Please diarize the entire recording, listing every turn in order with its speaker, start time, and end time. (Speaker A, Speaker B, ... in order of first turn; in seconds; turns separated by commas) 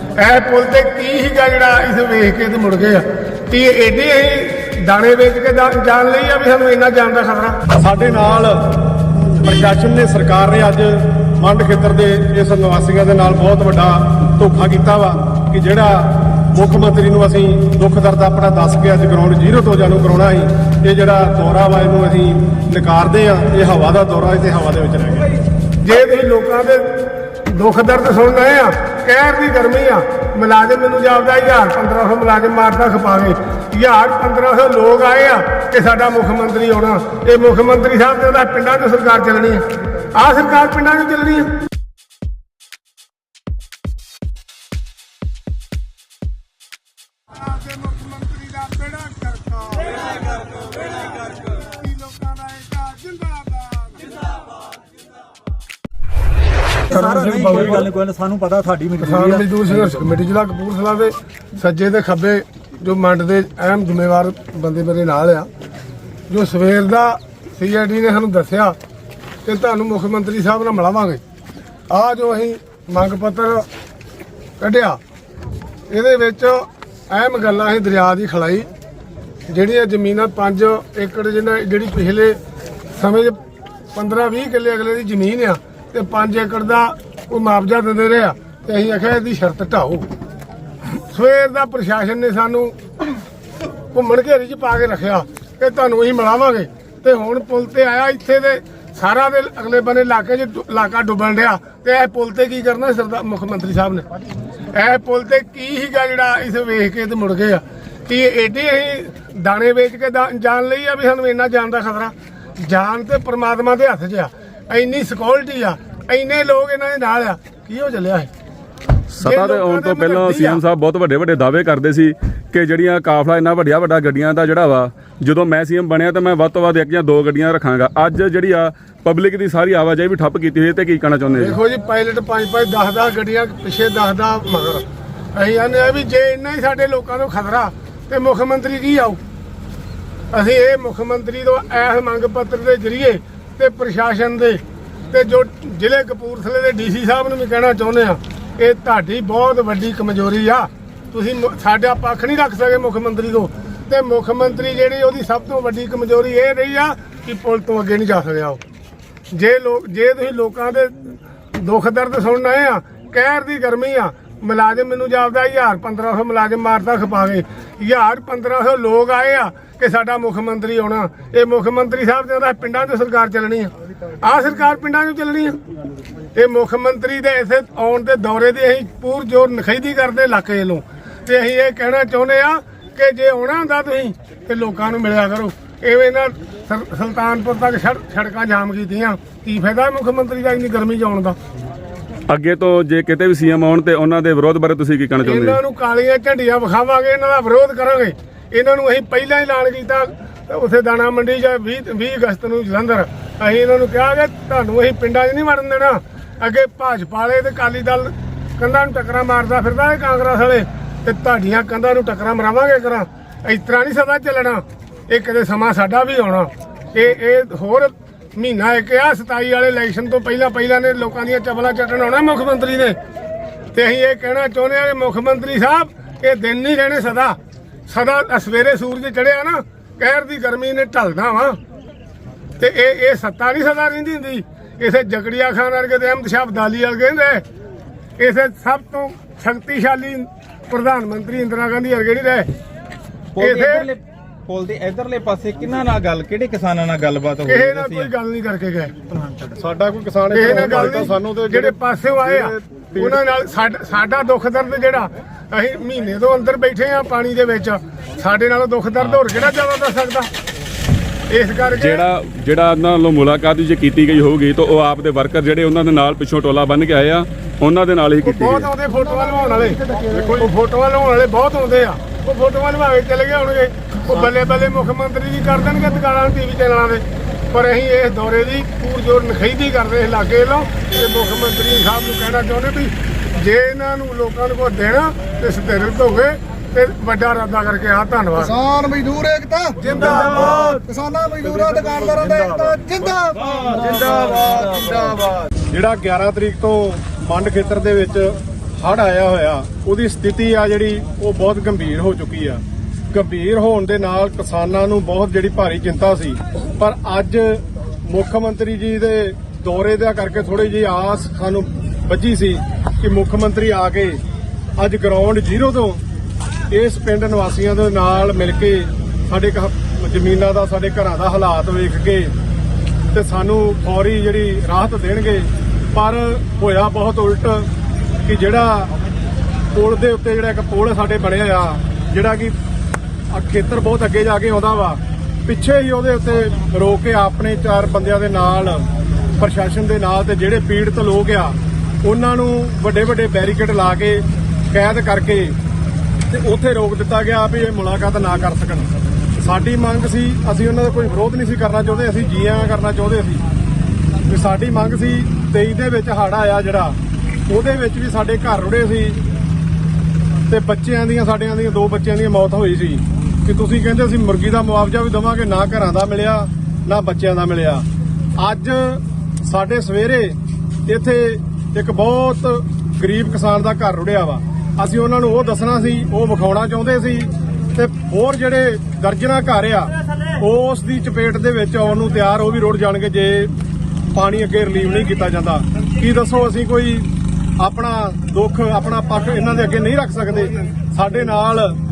Speaker A: 0.2-7.6, Speaker B: 7.7-8.7, Speaker B: 9.4-25.3, Speaker A: 25.8-41.5, Speaker A: 47.5-54.2, Speaker A: 56.9-57.9, Speaker C: 56.9-59.3, Speaker A: 59.0-65.5, Speaker A: 66.3-68.8, Speaker A: 69.4-71.2, Speaker A: 71.9-73.7, Speaker A: 74.6-75.0, Speaker A: 75.9-78.7, Speaker A: 79.5-82.4, Speaker A: 82.9-83.4, Speaker A: 83.9-90.1, Speaker A: 91.0-92.8, Speaker A: 93.9-104.1, Speaker A: 104.7-118.3, Speaker D: 119.1-131.6, Speaker A: 119.2-120.6, Speaker A: 131.4-134.8, Speaker A: 135.3-139.2, Speaker A: 140.3-158.6, Speaker A: 159.3-175.6, Speaker A: 176.3-191.4, Speaker D: 192.3-195.6, Speaker A: 195.2-223.0, Speaker A: 223.7-231.6, Speaker A: 232.6-237.4, Speaker A: 238.2-242.5, Speaker E: 243.3-248.1, Speaker A: 243.4-243.9, Speaker A: 247.4-248.9, Speaker B: 249.4-253.2, Speaker A: 250.3-260.3, Speaker A: 261.3-262.1, Speaker D: 261.8-268.7, Speaker A: 268.2-288.6, Speaker B: 270.1-270.5, Speaker F: 288.5-295.2, Speaker A: 289.8-290.5, Speaker B: 295.7-314.2, Speaker B: 314.8-316.0, Speaker B: 316.7-322.3, Speaker B: 323.1-327.7, Speaker B: 328.2-328.9, Speaker B: 329.7-332.6, Speaker B: 333.3-338.9, Speaker B: 339.4-345.5, Speaker B: 346.3-353.4, Speaker B: 354.3-357.0, Speaker B: 357.5-359.2, Speaker B: 360.5-367.8, Speaker B: 368.4-383.5, Speaker B: 384.1-387.1, Speaker B: 387.6-391.8